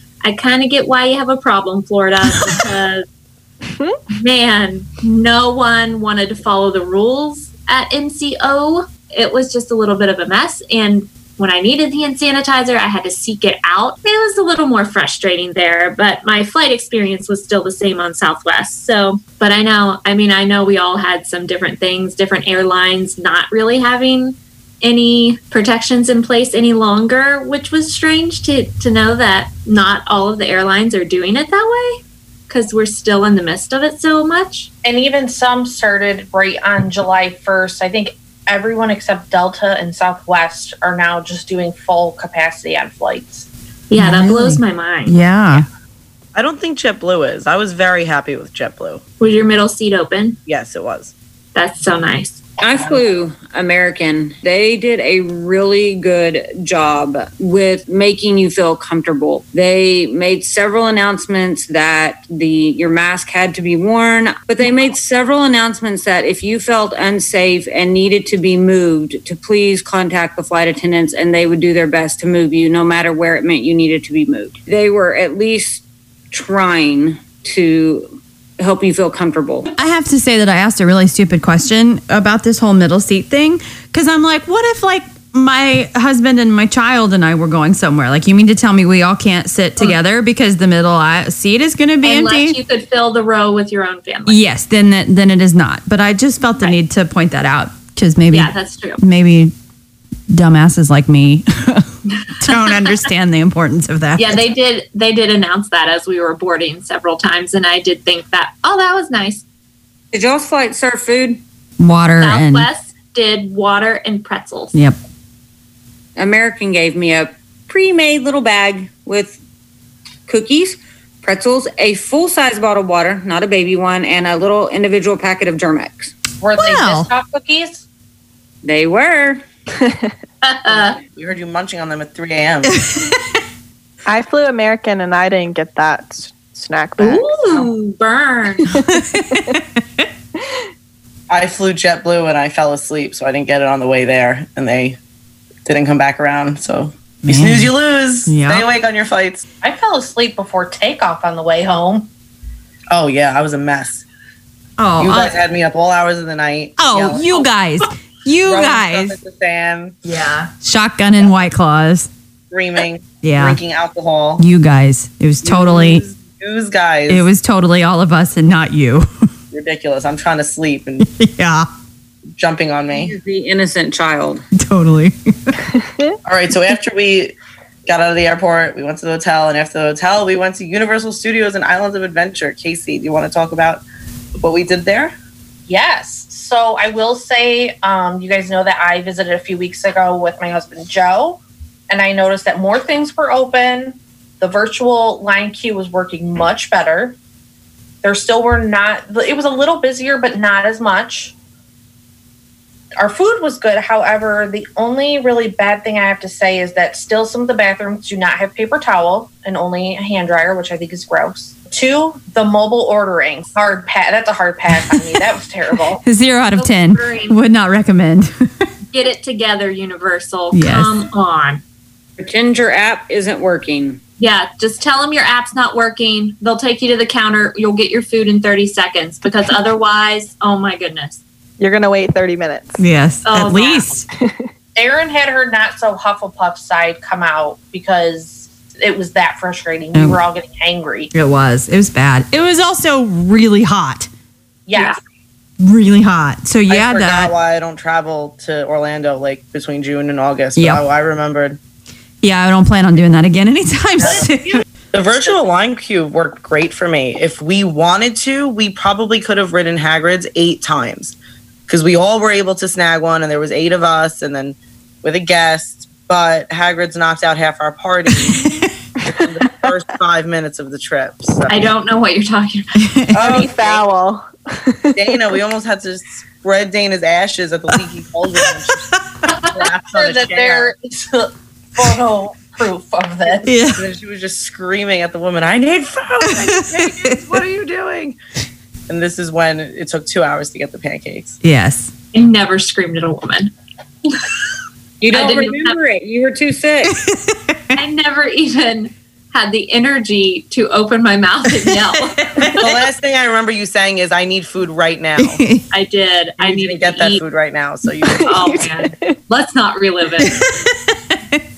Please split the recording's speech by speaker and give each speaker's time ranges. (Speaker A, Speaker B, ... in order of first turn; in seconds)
Speaker A: 0.2-3.0, 4.2-34.7, 43.9-45.2, 49.2-50.4, 51.5-52.4, 92.0-94.4, 98.3-99.0, 102.3-103.0, 104.2-109.5, 112.2-114.7, 130.4-131.0, 137.0-138.8, 216.6-217.4, 218.9-221.6, 224.2-231.2, 233.2-234.0, 271.5-273.0, 292.1-293.5, 295.1-295.8, 297.8-302.7, 305.7-307.2, 308.2-310.5
Speaker B: 34.8-43.5, 126.4-127.8, 149.6-152.1, 185.7-197.2, 198.0-201.3, 203.0-216.0, 234.8-241.1, 244.7-245.0, 254.0-254.4, 279.8-283.5
Speaker C: 44.0-45.7, 79.7-92.6, 94.3-99.5, 100.3-104.4, 111.8-112.7, 126.6-127.1, 132.7-133.1, 138.8-139.6, 147.2-147.7, 148.3-148.7, 154.8-155.4, 156.8-159.2, 160.1-162.1, 163.2-163.6, 164.4-166.1, 167.1-169.1, 171.0-171.7, 174.5-175.6, 214.9-215.2, 216.0-218.5, 220.5-221.0, 232.8-234.0, 239.9-240.2, 241.1-244.1, 245.6-247.3, 250.6-250.8, 252.2-254.6, 268.2-268.7, 272.8-273.2, 278.3-279.3, 283.4-283.8, 286.2-287.2, 291.4-291.9, 296.9-297.6, 301.6-302.6, 305.2-305.7, 310.2-311.4
Speaker D: 46.3-49.0, 50.5-51.1, 131.0-132.8, 141.3-145.0, 145.7-149.4, 152.9-154.0, 155.0-157.2, 158.5-159.9, 162.5-164.4, 165.4-167.3, 169.5-171.1, 172.4-173.2, 176.2-177.3, 177.9-183.8, 184.4-185.1, 246.7-251.6, 254.9-261.1, 261.7-268.4, 269.1-271.5, 273.1-273.9, 275.0-278.9, 279.4-280.7, 283.8-288.2, 288.9-291.4, 302.6-305.4, 306.4-308.3
Speaker E: 52.6-79.7, 110.1-111.4, 116.2-119.4, 120.3-126.1, 128.6-129.4, 172.9-174.4, 222.2-224.0, 295.0-296.9
Speaker F: 129.8-130.1, 134.1-137.7, 139.2-139.5, 231.6-232.8, 234.1-234.5, 273.2-275.2, 308.2-309.2